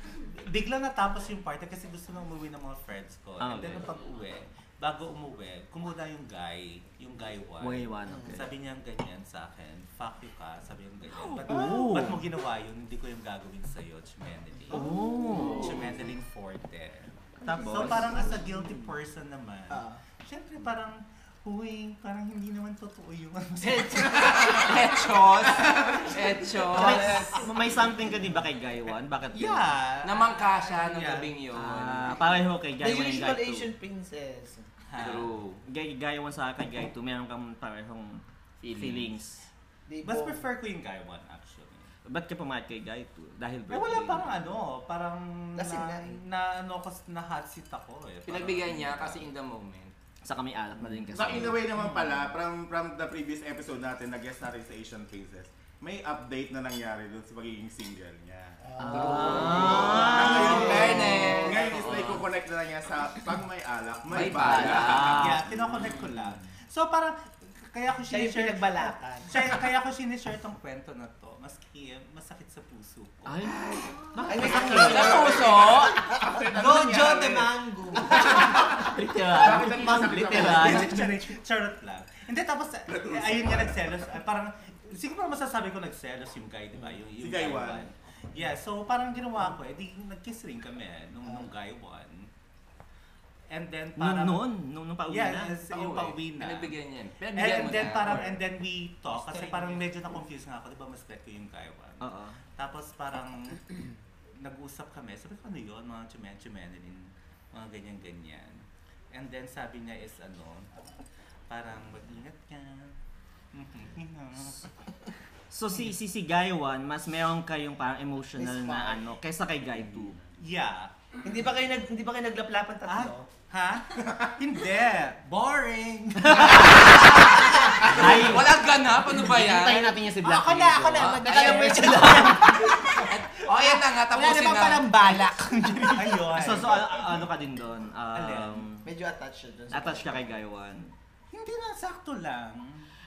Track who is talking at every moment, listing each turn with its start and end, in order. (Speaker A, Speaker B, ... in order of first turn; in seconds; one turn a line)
Speaker A: 0.4-24.6
Speaker B: 3.4-3.9
Speaker B: 7.6-8.5
Speaker C: 8.1-8.3
Speaker B: 11.2-12.2
Speaker B: 14.7-15.9
Speaker B: 17.5-18.3
Speaker C: 19.7-20.0
Speaker D: 23.9-27.4
Speaker C: 26.7-27.5
Speaker B: 26.7-29.7
Speaker A: 29.3-31.3
Speaker D: 30.0-32.2
Speaker B: 31.5-33.7
Speaker C: 32.8-34.6
Speaker A: 34.9-35.3
Speaker D: 35.0-35.6
Speaker B: 35.6-39.5
Speaker C: 39.9-40.4
Speaker A: 40.0-41.9
Speaker B: 42.0-44.3
Speaker A: 43.7-49.2
Speaker C: 45.5-46.2
Speaker D: 48.2-49.9
Speaker B: 50.2-51.7
Speaker E: 51.1-58.6
Speaker C: 58.6-61.5
Speaker B: 58.8-62.2
Speaker D: 58.9-61.9
Speaker E: 59.3-65.9
Speaker D: 64.1-65.2
Speaker B: 64.1-65.4
Speaker A: 64.9-73.5
Speaker C: 68.1-69.3
Speaker B: 73.2-75.3
Speaker C: 74.2-76.2
Speaker D: 74.7-76.0
Speaker E: 75.1-77.5
Speaker F: 76.5-78.7
Speaker E: 78.4-81.0
Speaker B: 78.7-81.1
Speaker A: 80.3-92.3
Speaker E: 82.9-84.1
Speaker E: 87.2-87.9
Speaker A: 93.5-94.5
Speaker B: 94.0-96.0
Speaker A: 95.1-96.8
Speaker D: 95.7-98.3
Speaker A: 97.3-103.7
Speaker F: 99.1-99.8
Speaker B: 102.0-102.4
Speaker A: 104.4-110.7
Speaker A: 111.5-112.9
Speaker A: 113.5-114.7
Speaker B: 115.5-120.2
Speaker C: 118.4-119.0
Speaker A: 120.4-120.9
Speaker C: 121.2-123.2
Speaker A: 122.8-127.0
Speaker B: 126.2-128.6
Speaker D: 126.7-129.9
Speaker B: 129.2-132.6
Speaker F: 130.1-136.3
Speaker D: 130.9-131.7
Speaker D: 132.9-135.1
Speaker A: 135.9-137.0
Speaker B: 136.3-138.8
Speaker E: 136.9-137.2
Speaker A: 138.1-138.7
Speaker C: 138.8-140.4
Speaker B: 139.7-140.9
Speaker A: 141.3-142.9